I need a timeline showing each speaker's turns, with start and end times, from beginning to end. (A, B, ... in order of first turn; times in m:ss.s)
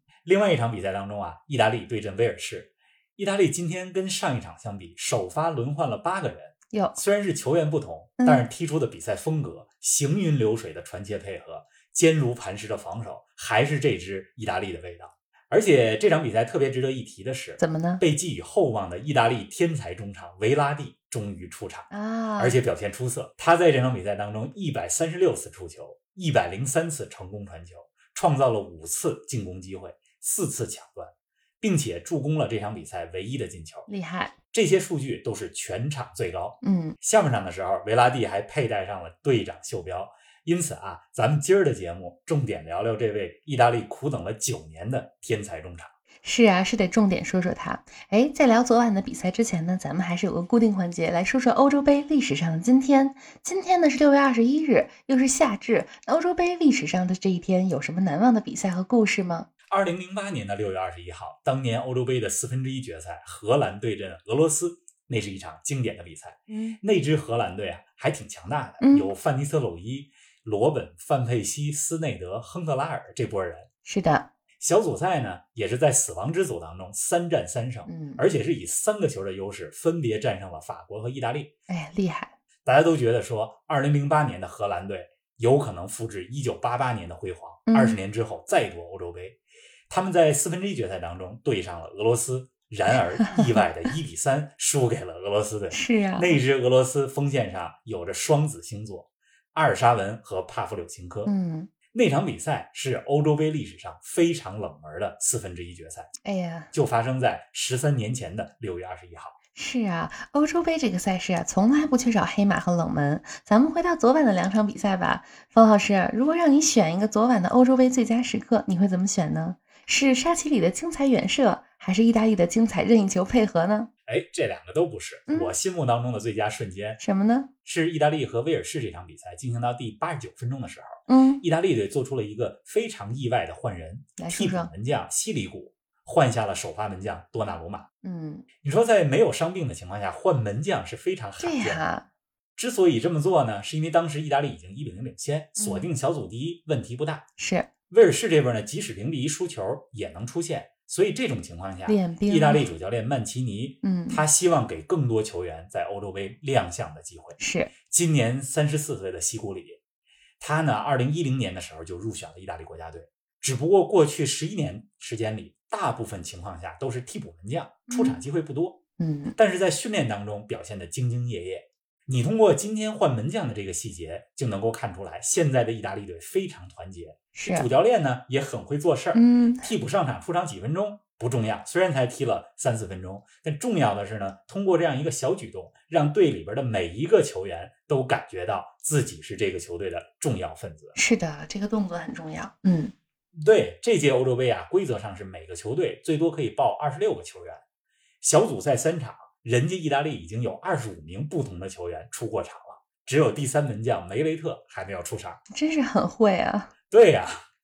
0:00.2-0:33.9 A
0:06.7-0:07.0 B
0:08.2-0:08.4 B
0:17.6-0:18.0 B
0:21.9-0:22.6 B
0:33.9-0:34.3 B
0:34.5-0:45.9 A
0:36.6-0:37.0 B
0:46.2-0:59.5 B
0:59.7-1:13.7 A
1:06.5-1:06.8 B
1:08.8-1:09.1 B
1:13.8-1:14.3 B
1:14.6-1:21.5 A
1:17.8-1:18.2 B
1:21.7-1:22.3 B
1:22.6-1:41.3 A
1:27.7-1:28.0 B
1:35.7-1:36.4 B
1:41.2-1:41.7 B
1:41.9-1:46.1 A
1:46.2-1:46.7 B
1:46.7-1:49.3 A
1:49.5-2:03.9 B
2:04.1-2:07.0 A
2:05.3-2:05.5 B
2:07.0-2:07.5 B
2:07.6-2:17.9 A
2:11.1-2:11.4 B
2:14.2-2:14.7 B
2:18.0-2:18.4 B
2:18.6-2:21.8 A
2:21.4-2:22.0 B
2:22.6-2:27.2 A
2:25.6-2:25.9 B
2:27.4-2:27.7 B
2:27.9-2:39.8 A
2:31.8-2:32.6 B
2:33.8-2:34.2 B
2:37.4-2:37.7 B
2:40.4-2:48.8 A
2:47.9-2:48.2 B
2:49.0-2:49.4 B
2:49.4-3:11.0 A
2:57.3-2:57.7 B
2:59.1-2:59.7 B
3:10.9-3:12.9 B
3:13.4-3:17.6 A
3:18.2-3:25.4 A
3:25.5-3:26.7 B
3:26.9-3:27.4 A